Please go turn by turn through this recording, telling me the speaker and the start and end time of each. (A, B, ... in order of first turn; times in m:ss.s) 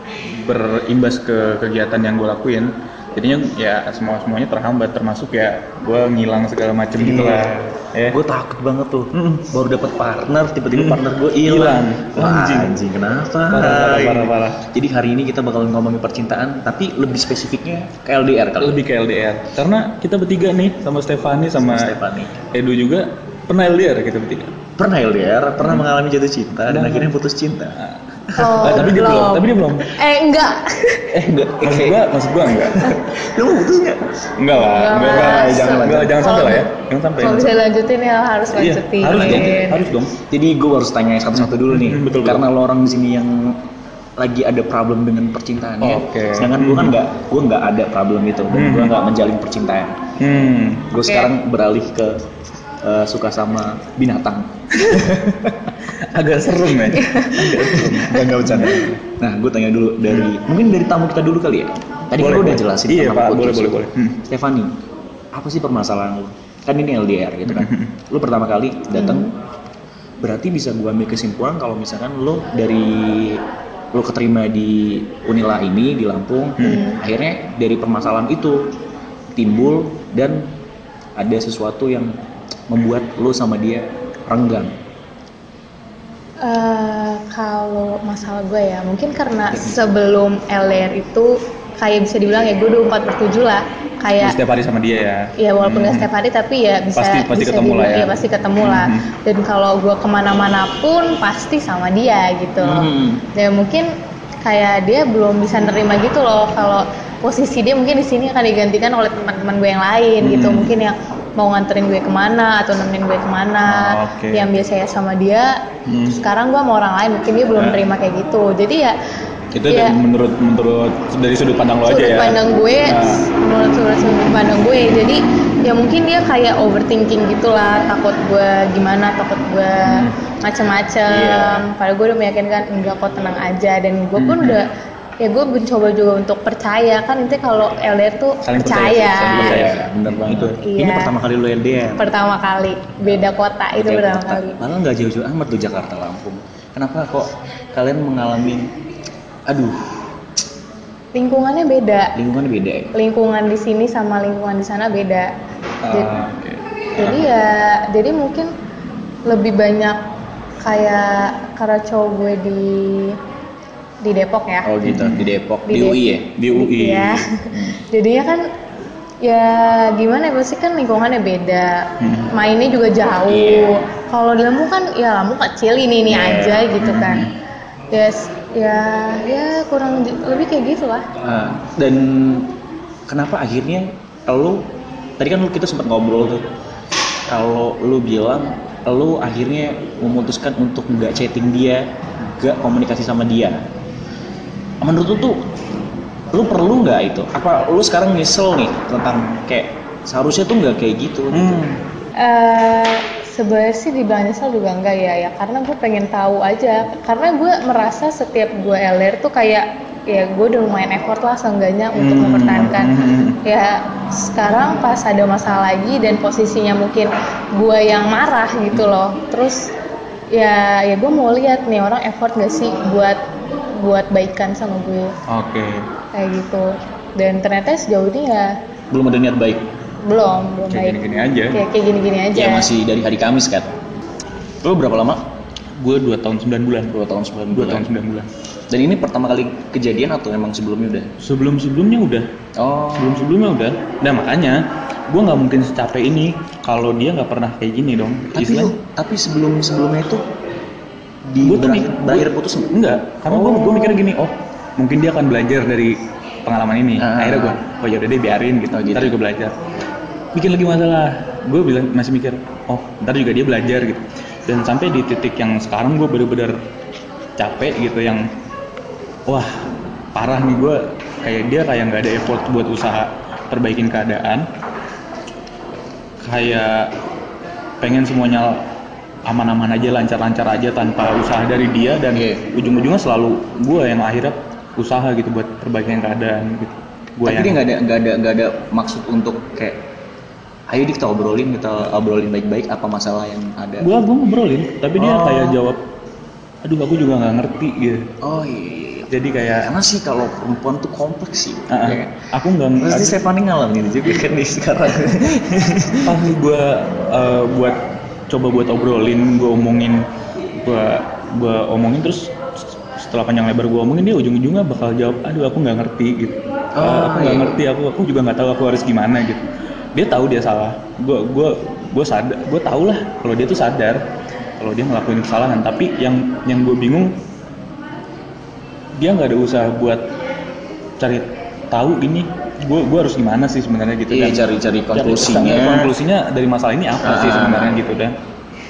0:00.2-0:08.2 A
0:07.0-0:18.8 B
0:09.1-0:09.5 A
0:10.7-0:12.8 A
0:13.5-0:14.6 A
0:18.6-0:24.5 A
0:21.6-0:22.3 B
0:24.8-0:27.8 B
0:26.7-0:27.2 A
0:27.8-0:29.9 A
0:28.4-0:31.1 C
0:28.4-0:28.9 B
0:31.1-0:33.0 A
0:31.6-0:32.0 B
0:32.9-0:34.0 B
0:34.4-0:37.6 A
0:34.5-0:39.9 C
0:35.0-0:36.2 B
0:38.5-0:40.2 A
0:39.1-0:39.6 B
0:40.3-0:43.6 B
0:41.4-0:42.5 A
0:44.2-0:50.0 B
0:45.8-0:47.0 A
0:48.5-0:49.0 A
0:50.2-0:51.0 A
0:50.9-0:52.2 B
0:52.8-0:55.5 B
0:56.0-0:59.0 A
0:56.9-0:58.0 C
0:57.6-1:04.7 B
1:02.1-1:04.2 A
1:05.3-1:09.3 B
1:07.5-1:07.9 A
1:08.9-1:09.3 C
1:10.2-1:18.7 B
1:16.6-1:16.9 A
1:16.6-1:17.0 C
1:19.3-1:20.5 B
1:21.2-1:22.1 B
1:22.7-1:24.7 B
1:26.4-1:34.4 C
1:34.2-1:36.1 A
1:35.4-1:43.9 C
1:37.0-1:39.0 A
1:42.6-1:43.2 B
1:44.4-1:55.6 C
1:50.2-1:50.7 A
1:53.7-1:54.6 A
1:55.9-1:56.2 A
1:56.2-1:58.9 C
1:57.5-1:57.8 A
1:59.5-2:03.2 A
1:59.7-2:00.0 C
2:01.8-2:14.7 C
2:09.8-2:10.1 A
2:11.1-2:11.7 B
2:14.2-2:14.6 A
2:15.2-2:19.7 C
2:18.4-2:20.6 A
2:19.3-2:22.1 B
2:20.6-2:21.1 C
2:22.0-2:24.6 C
2:23.7-2:28.7 B
2:29.4-2:29.8 B
2:31.1-2:32.1 C
2:32.2-2:32.9 B
2:32.9-2:35.3 C
2:35.8-2:37.3 A
2:37.0-2:38.5 C
2:39.2-2:40.0 C
2:40.6-2:43.2 C
2:44.0-2:44.7 C
2:44.6-2:46.3 B
2:44.8-2:45.3 A
2:45.7-2:48.5 C
2:46.4-2:47.2 A
2:47.5-2:47.8 B
2:49.2-2:57.2 C
2:52.0-2:52.3 A
2:53.3-2:53.7 B
2:56.1-2:56.7 B
2:56.8-2:57.3 A
2:57.9-3:01.0 C
3:01.2-3:02.5 B
3:03.1-3:06.4 B
3:07.3-3:13.6 B
3:14.8-3:15.5 B
3:16.3-3:21.6 B
3:21.3-3:21.8 A
3:22.2-3:39.7 C
3:32.0-3:33.4 A
3:40.3-3:45.2 C
3:45.3-3:45.9 A
3:46.1-3:48.6 C
3:48.9-3:49.7 B
3:50.0-3:52.7 C
3:50.7-3:51.6 A
3:52.3-3:53.8 B
3:54.6-3:55.3 B
3:55.8-3:57.0 A
3:56.9-3:57.9 B
3:57.5-3:58.3 A
3:58.7-4:01.1 B
4:01.2-4:02.3 A
4:02.6-4:03.3 B
4:02.9-4:08.7 A
4:08.3-4:10.2 B
4:11.3-4:12.7 B
4:11.4-4:19.5 A
4:13.3-4:14.0 B
4:17.0-4:17.6 B
4:18.7-4:19.2 B
4:20.3-4:26.5 A
4:27.4-4:28.3 A
4:30.1-4:34.4 A
4:36.2-4:36.9 A
4:37.8-4:38.6 A
4:39.2-4:47.6 A
4:42.1-4:42.4 B
4:47.2-4:49.8 B
4:50.7-4:53.9 B
4:53.8-4:55.8 A
4:55.0-4:55.6 B
4:56.6-4:58.1 A
4:58.2-5:02.3 B
4:59.1-4:59.7 A
5:01.7-5:03.2 A
5:02.8-5:06.2 B
5:06.0-5:07.8 A
5:08.3-5:10.0 A
5:10.6-5:19.4 A
5:16.7-5:17.6 B
5:19.9-5:24.0 A
5:24.6-5:27.1 A
5:29.0-5:30.0 A
5:31.0-5:38.2 A
5:34.1-5:35.9 B
5:37.0-5:37.8 B